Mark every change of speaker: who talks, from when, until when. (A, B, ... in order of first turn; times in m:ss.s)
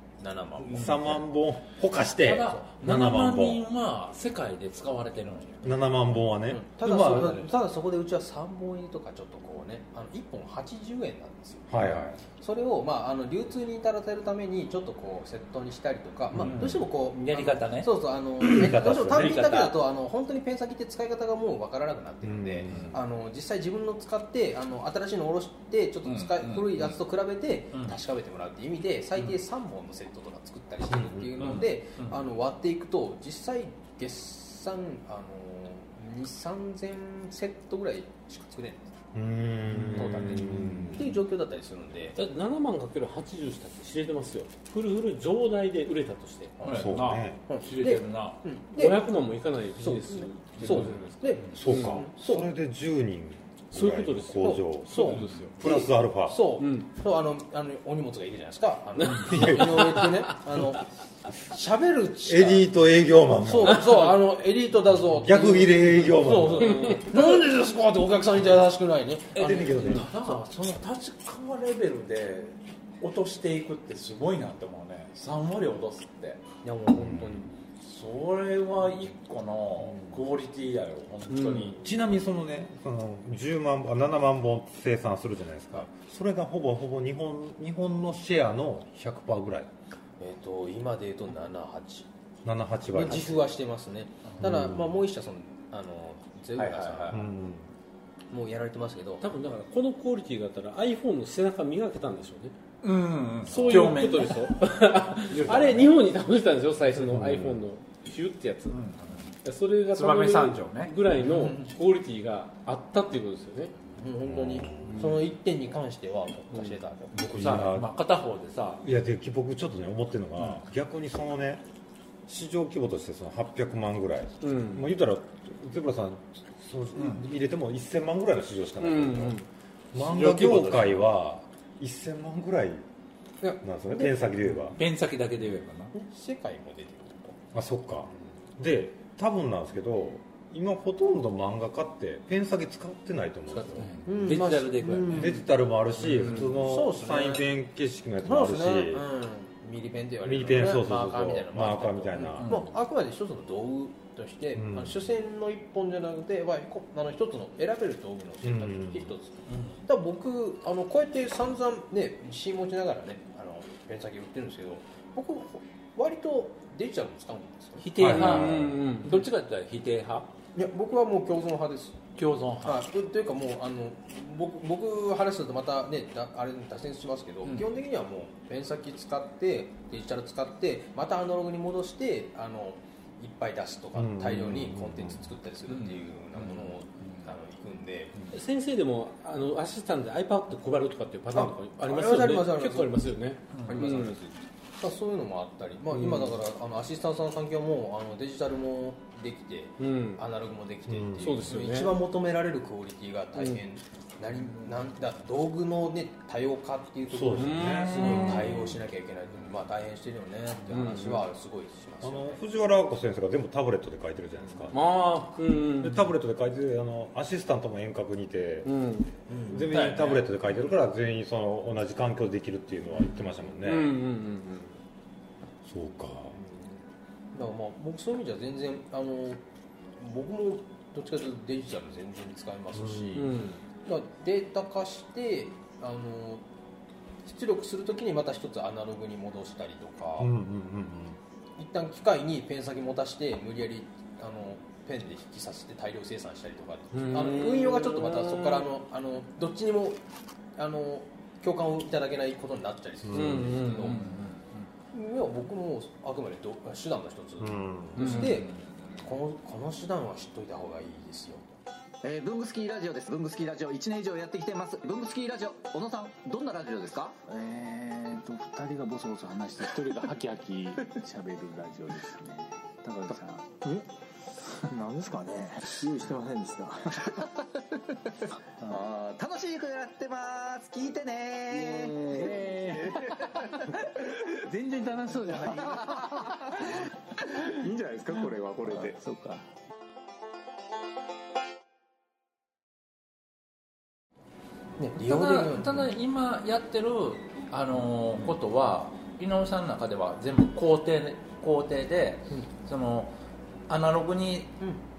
0:00.2-0:01.2 A
0:00.6-0:03.6 B
0:02.2-0:05.7 C
0:05.6-0:07.5 B
0:06.5-0:11.7 A
0:11.7-0:12.2 B
0:12.4-0:38.9 A
0:16.3-0:16.8 B
0:16.4-0:17.9 C
0:18.4-0:19.4 B
0:18.6-0:19.8 C
0:22.2-0:23.0 B
0:22.7-0:23.0 C
0:26.0-0:27.0 C
0:30.9-0:31.6 B
0:31.4-0:32.2 C
0:39.1-0:41.2 B
0:39.7-0:40.9 C
0:40.0-0:42.2 A
0:42.2-0:46.6 D
0:46.6-0:48.4 C
0:46.7-0:47.4 B
0:47.5-0:49.0 A
0:48.8-0:51.2 D
0:49.8-0:52.5 A
0:50.6-0:51.6 C
0:51.5-0:56.4 B
0:51.7-0:52.0 D
0:53.7-0:55.5 D
0:54.4-1:00.9 A
0:55.1-0:55.5 C
0:56.6-0:56.9 D
0:59.0-1:00.1 D
0:59.2-1:00.1 B
1:01.5-1:02.7 A
1:02.3-1:04.1 B
1:03.4-1:10.4 A
1:05.2-1:07.0 B
1:06.6-1:07.1 D
1:09.4-1:16.4 C
1:09.4-1:10.1 B
1:16.6-1:17.5 A
1:16.9-1:17.4 B
1:17.8-1:21.8 C
1:21.3-1:21.8 D
1:21.8-1:29.7 B
1:30.2-1:32.1 A
1:32.4-1:33.5 B
1:32.9-1:37.2 A
1:34.4-1:35.0 B
1:36.6-1:37.2 C
1:37.1-1:37.7 B
1:38.3-1:39.2 A
1:39.2-1:42.6 D
1:42.8-1:44.5 C
1:43.5-1:48.8 D
1:43.6-1:43.9 B
1:45.3-1:46.0 C
1:47.0-1:47.6 B
1:48.7-1:49.4 C
1:49.4-1:53.7 D
1:49.9-1:51.7 C
1:54.0-1:57.5 A
1:54.3-1:55.0 B
1:54.9-1:55.2 D
1:57.2-1:58.8 C
1:57.2-1:57.9 B
1:58.8-2:01.6 B
2:02.3-2:09.4 B
2:04.4-2:04.9 D
2:07.0-2:07.2 C
2:08.8-2:11.0 D
2:09.9-2:12.8 B
2:13.4-2:14.1 A
2:13.6-2:14.8 B
2:14.6-2:15.9 C
2:15.9-2:17.4 A
2:17.5-2:23.9 B
2:23.6-2:25.4 C
2:24.0-2:25.4 A
2:25.1-2:29.1 B
2:26.5-2:27.4 A
2:28.2-2:39.3 A
2:30.2-2:32.5 B
2:32.2-2:32.7 C
2:34.6-2:35.0 B
2:38.4-2:39.1 B
2:39.5-2:39.8 C
2:39.9-2:47.9 A
2:47.8-2:50.3 C
2:48.0-2:48.7 B
2:48.0-2:49.2 D
2:50.6-2:52.0 A
2:52.2-2:52.8 C
2:52.6-3:08.1 A
3:04.0-3:05.3 B
3:05.7-3:07.3 C
3:08.3-3:14.2 D
3:11.3-3:13.0 A
3:13.5-3:14.0 C
3:13.6-3:32.4 A
3:15.9-3:16.3 D
3:19.8-3:20.2 D
3:20.9-3:21.5 B
3:21.2-3:22.0 D
3:23.4-3:23.6 D
3:27.1-3:28.8 B
3:27.3-3:28.4 D
3:30.7-3:31.2 D
3:32.0-3:34.8 B
3:34.7-3:36.1 D
3:35.8-3:38.8 B
3:38.6-3:39.1 D
3:39.3-3:40.2 A
3:39.4-3:44.0 B
3:43.6-3:44.8 D
3:45.6-3:46.4 B
3:46.4-3:46.7 A
3:47.3-3:49.4 A
3:50.0-3:56.4 A
3:52.7-3:53.3 B
3:53.2-3:53.6 D
3:57.2-4:00.3 A
4:00.2-4:01.2 B
4:01.6-4:10.0 A
4:06.9-4:08.7 D
4:10.6-4:14.0 A
4:13.0-4:13.6 B
4:13.1-4:14.0 D
4:13.6-4:14.7 C
4:14.9-4:18.5 A
4:17.4-4:18.3 B
4:18.0-4:18.3 D
4:18.0-4:18.6 C
4:19.0-4:21.5 A
4:22.0-4:27.2 E
4:27.2-4:33.8 F
4:34.6-4:37.3 F
4:38.7-4:43.1 E
4:41.5-4:46.7 F
4:45.5-4:46.1 E
4:47.2-4:49.5 F
4:54.8-4:55.9 A
4:55.0-5:03.1 C
5:03.7-5:04.6 C